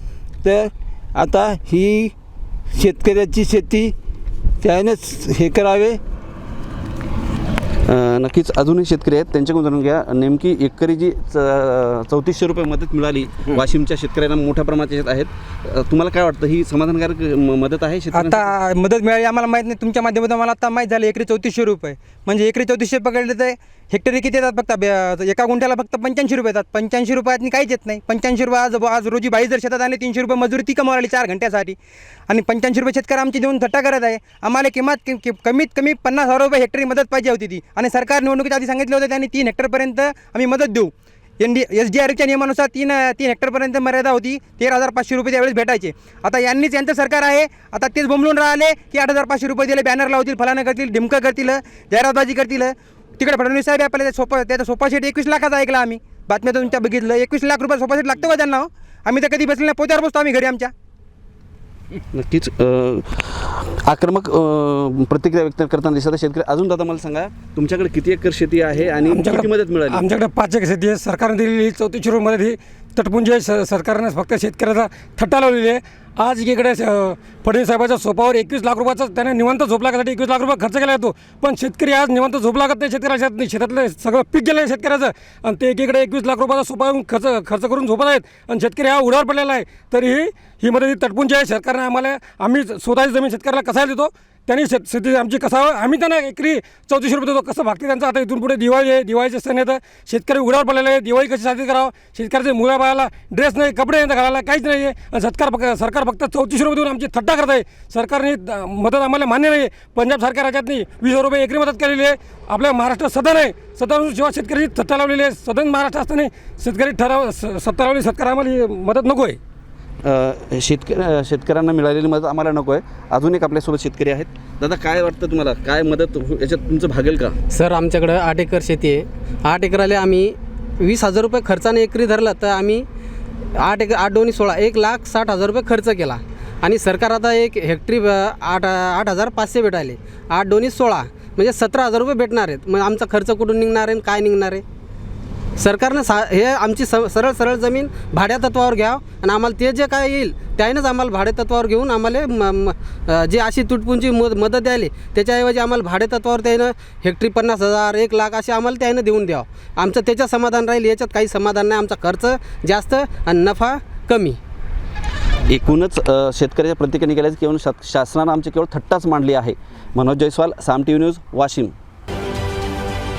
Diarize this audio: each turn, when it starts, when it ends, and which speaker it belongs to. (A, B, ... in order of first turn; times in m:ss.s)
0:00.4-0:02.1 A
0:02.7-0:03.9 A
0:04.6-0:06.0 A
0:07.9-0:18.5 B
0:18.1-0:31.8 C
0:32.3-1:00.7 C
1:02.1-1:10.0 B
1:09.1-1:59.4 D
2:00.0-2:07.4 B
2:07.5-2:12.9 E
2:13.5-2:24.6 E
2:25.6-2:44.4 E
2:45.5-2:51.7 B